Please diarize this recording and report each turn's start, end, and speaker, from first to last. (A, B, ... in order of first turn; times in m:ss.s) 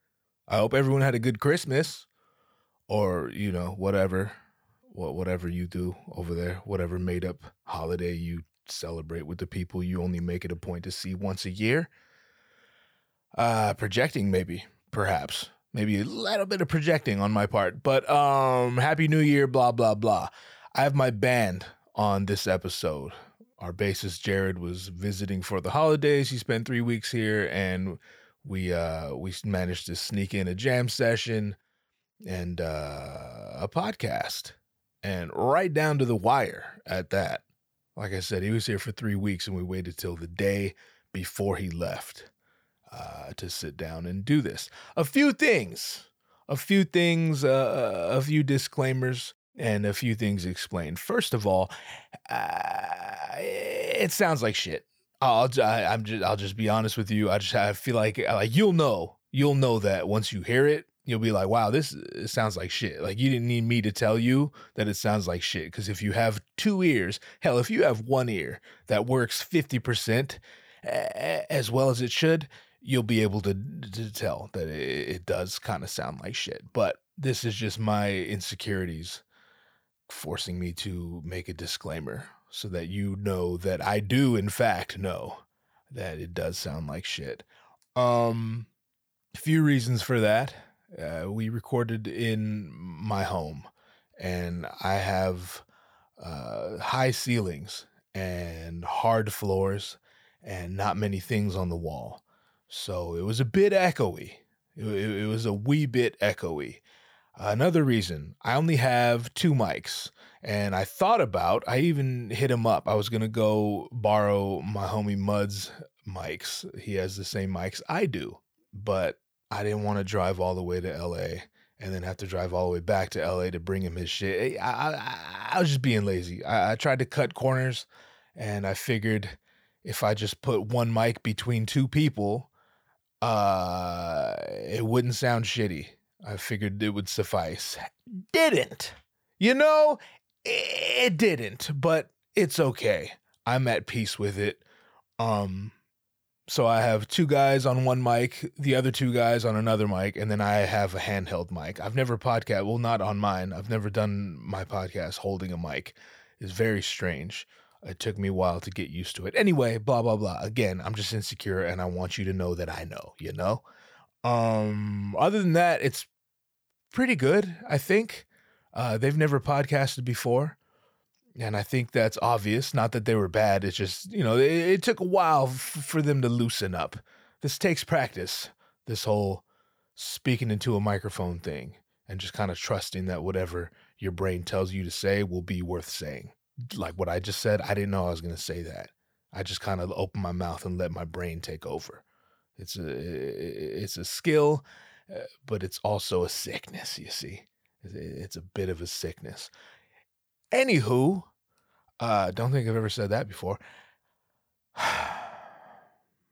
0:00.5-0:02.1 A
0:02.9-0:04.3 A
0:04.9-0:11.9 A
0:13.3-0:31.6 A
0:32.2-0:37.4 A
0:38.0-0:42.3 A
0:42.9-0:51.7 A
0:52.3-1:19.2 A
1:20.1-1:28.7 A
1:29.3-1:35.6 A
1:36.2-1:46.8 A
1:47.4-2:12.5 A
2:13.2-2:24.6 A
2:25.2-2:25.7 A
2:26.5-2:43.6 A
2:44.2-2:46.1 A
2:46.9-2:50.6 A
2:51.4-2:59.4 A
3:00.0-3:12.0 A
3:12.6-3:19.5 A
3:20.5-3:21.3 A
3:22.0-3:23.6 A
3:24.8-3:25.4 A